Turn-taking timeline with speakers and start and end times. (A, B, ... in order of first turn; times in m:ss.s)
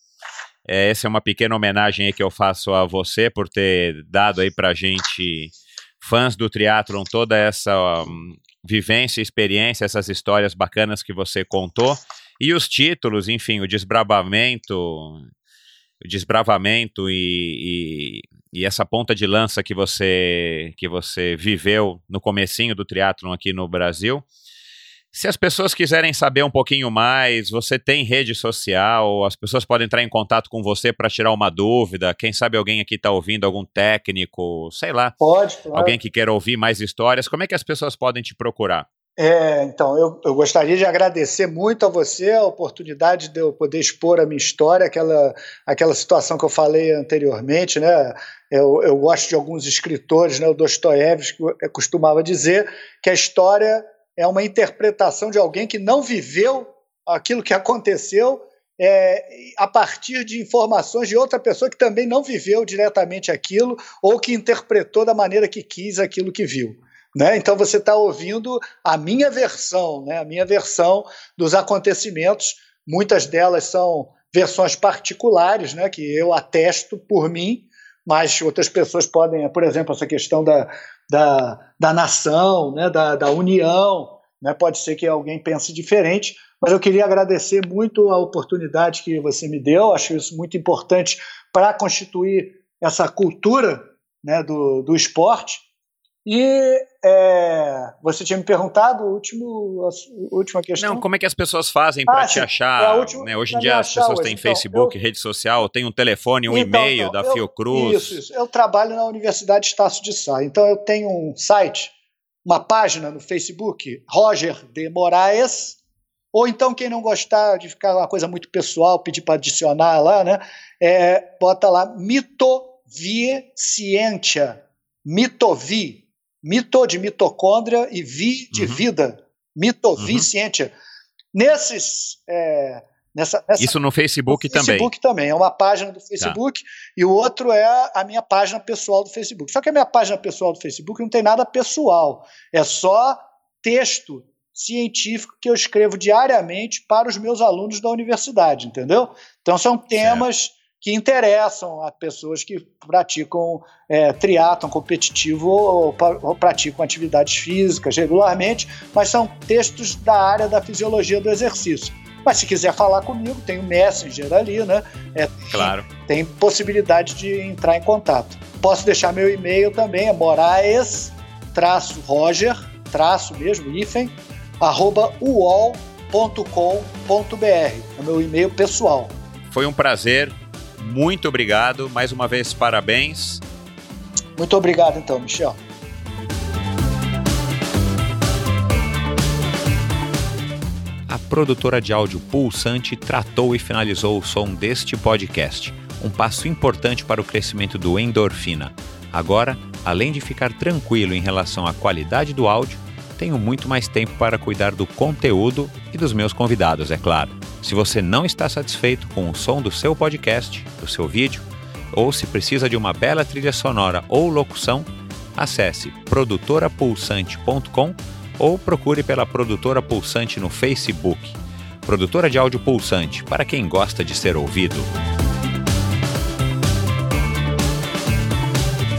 0:00.6-0:15.2 A
0:16.0-0:24.2 A
0:25.1-0:35.1 A
0:35.2-0:35.9 B
0:35.7-0:38.8 A
0:39.2-1:35.6 B
1:36.2-1:41.0 B
1:40.8-1:48.2 A
1:42.1-1:45.0 B
1:46.5-1:51.9 B
1:52.4-1:55.8 B
1:56.3-2:10.7 B
2:08.5-2:08.8 A
2:10.0-2:10.3 A
2:11.3-2:13.8 B
2:13.6-2:14.9 A
2:14.3-2:59.1 B
2:30.0-2:30.2 A
2:45.5-2:45.8 A
2:59.5-3:03.4 A
3:04.4-3:05.6 B
3:11.1-3:44.9 C